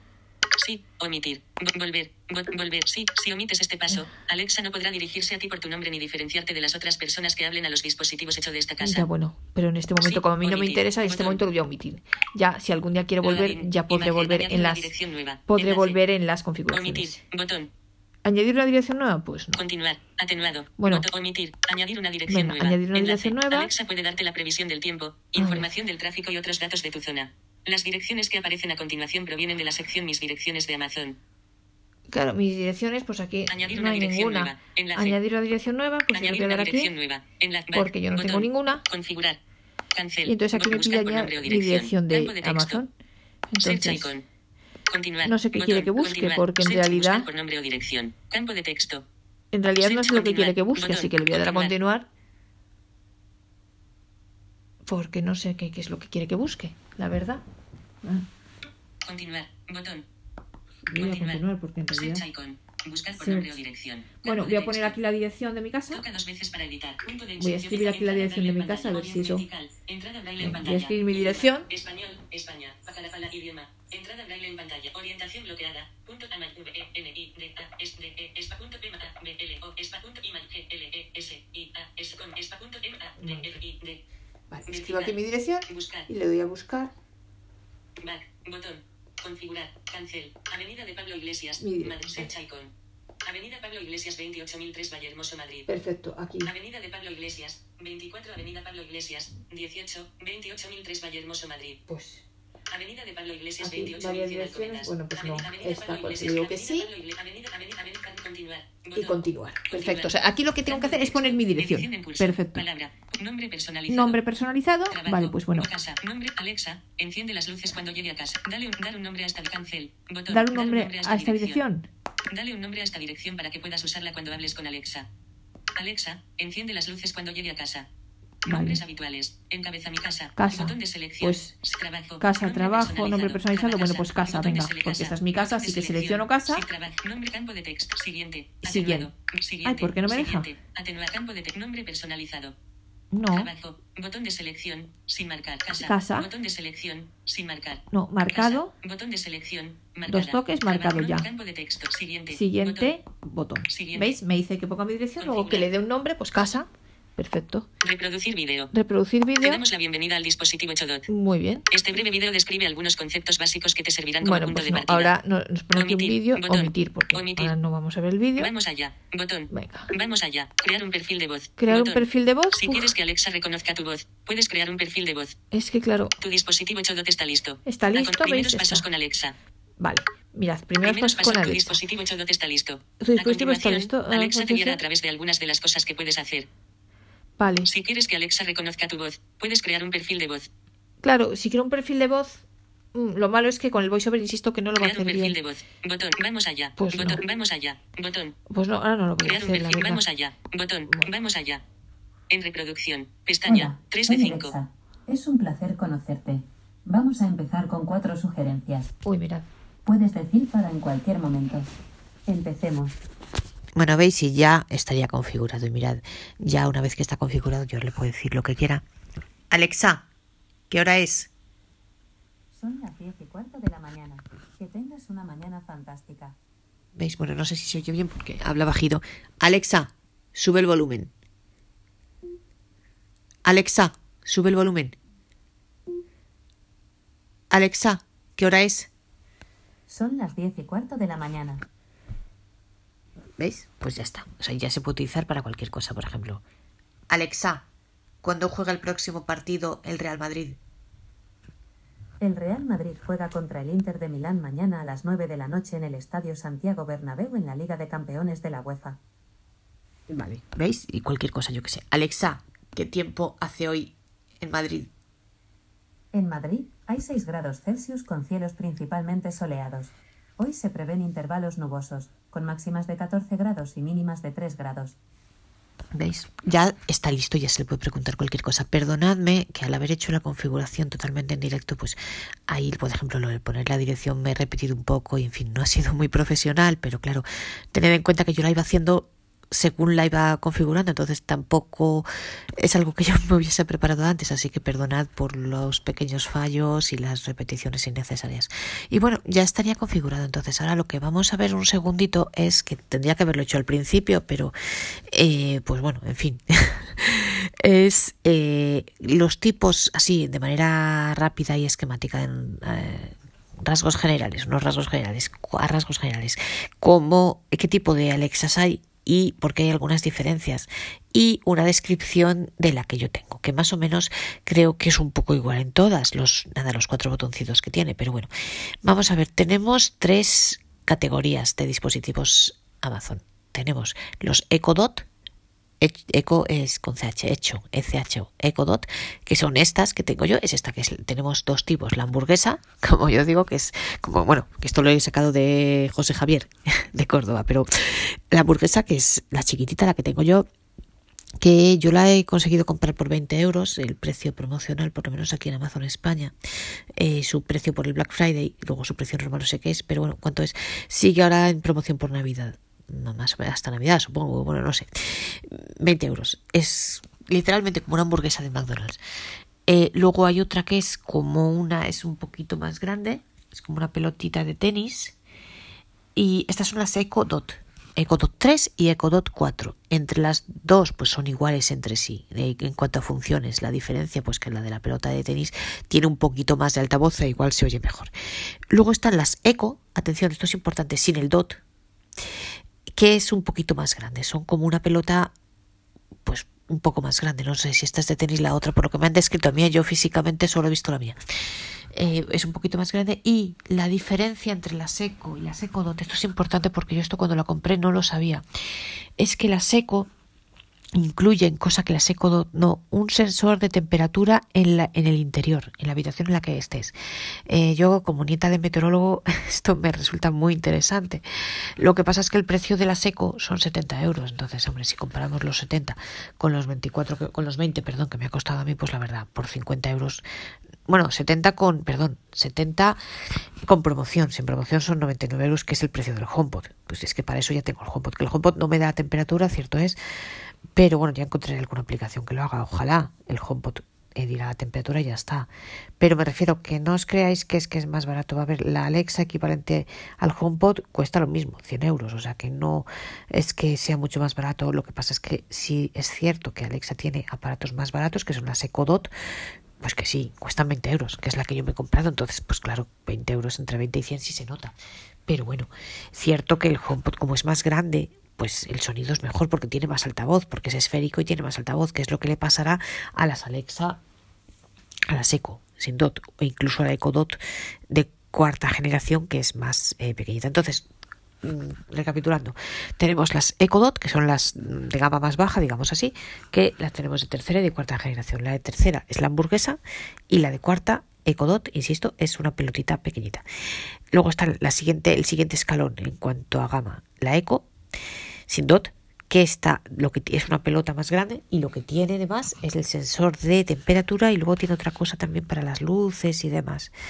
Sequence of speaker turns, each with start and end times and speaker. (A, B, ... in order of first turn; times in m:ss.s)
0:00.6-0:09.1 A
0:08.8-0:14.9 B
0:10.0-0:11.4 A
0:13.2-0:16.0 A
0:15.5-0:17.2 B
0:16.7-0:17.7 A
0:18.2-0:19.6 B
0:19.5-0:31.2 A
0:20.8-0:21.0 B
0:22.3-0:23.7 B
0:25.4-0:25.7 B
0:32.1-0:36.9 B
0:33.5-0:35.2 A
0:36.1-0:39.4 A
0:37.7-0:38.8 B
0:39.9-0:42.8 A
0:40.2-0:42.9 B
0:43.5-0:44.1 B
0:43.6-0:44.2 A
0:44.9-0:49.0 A
0:45.2-0:47.3 B
0:49.5-0:52.0 B
0:49.8-0:51.7 A
0:54.8-0:57.4 B
0:59.0-1:00.0 A
1:00.9-1:02.2 B
1:00.9-1:01.4 A
1:01.9-1:05.0 A
1:03.1-1:03.5 B
1:04.2-1:06.0 B
1:05.9-1:24.0 A
1:07.4-1:09.4 B
1:10.4-1:11.7 B
1:23.2-1:23.5 B
1:24.5-1:26.9 B
1:24.7-1:26.1 A
1:28.0-1:32.7 A
1:31.6-1:32.3 B
1:33.2-1:35.7 A
1:35.7-1:36.5 B
1:36.4-1:41.8 A
1:41.9-1:42.2 B
1:42.7-1:50.1 A
1:43.6-1:46.9 B
1:48.9-1:52.6 B
1:50.7-1:54.2 A
1:53.9-1:55.7 B
1:54.9-2:01.6 A
2:00.3-2:01.9 B
2:02.3-2:05.1 A
2:05.8-2:07.9 A
2:08.4-2:08.8 B
2:08.4-2:22.5 A
2:10.4-2:11.5 B
2:12.2-2:16.6 B
2:18.6-2:19.1 B
2:19.6-2:20.5 B
2:23.1-2:23.5 B
2:23.3-2:32.9 A
2:25.7-2:26.3 B
2:27.9-2:28.7 B
2:30.1-2:31.3 B
2:32.3-2:37.6 B
2:33.7-2:34.1 A
2:35.2-2:35.7 A
2:37.8-2:38.7 A
2:38.7-2:39.6 B
2:39.4-2:41.1 A
2:41.1-2:41.6 B
2:41.7-2:45.1 A
2:44.2-2:48.5 B
2:45.7-2:47.5 A
2:48.4-2:55.3 A
2:49.5-2:49.9 B
2:51.6-2:52.9 B
2:55.5-2:56.1 B
2:56.2-2:59.3 A
2:57.6-2:58.8 B
2:59.8-3:01.8 B
3:00.8-3:06.5 A
3:03.0-3:04.8 B
3:07.4-3:07.7 B
3:07.6-3:10.5 A
3:11.0-3:12.4 B
3:12.9-3:15.4 B
3:14.8-3:18.4 A
3:16.8-3:17.2 B
3:18.5-3:20.0 B
3:19.2-3:21.6 A
3:22.3-3:24.6 A
3:23.5-3:28.9 C
3:29.0-3:29.4 B
3:29.8-3:31.7 C
3:32.2-3:32.9 C
3:33.7-3:38.8 D
3:39.5-3:40.0 D
3:40.7-3:41.3 D
3:42.5-3:46.3 C
3:47.0-3:51.1 D
3:53.4-3:55.0 D
3:57.5-3:58.9 D
3:59.9-4:01.6 C
4:03.4-4:06.4 D
4:07.1-4:07.6 D
4:08.2-4:10.6 D
4:12.2-4:19.0 C
4:20.1-4:24.9 D
4:26.1-4:35.0 C
4:35.9-4:42.0 D
4:42.5-4:52.1 D
4:52.6-5:04.5 D
5:05.1-5:28.3 D
5:28.8-5:35.0 D
5:35.8-5:50.5 D
5:51.4-5:56.3 D
5:57.0-6:09.0 D
6:09.7-6:15.1 D
6:16.1-6:28.1 D
6:28.7-6:31.6 D
6:32.9-6:35.3 D
6:36.2-6:41.2 D
6:41.9-6:48.4 D
6:49.2-6:50.1 D
6:50.9-6:56.9 D
6:57.5-7:01.2 D
7:01.8-7:10.2 D
7:10.9-7:13.0 D
7:13.6-7:20.0 D
7:20.7-7:25.5 D
7:26.0-7:39.1 D
7:39.8-7:44.7 D
7:45.3-7:54.0 D
7:55.1-7:57.4 D
7:57.9-8:00.8 D
8:01.4-8:13.4 D
8:14.1-8:17.7 D
8:18.5-8:26.9 D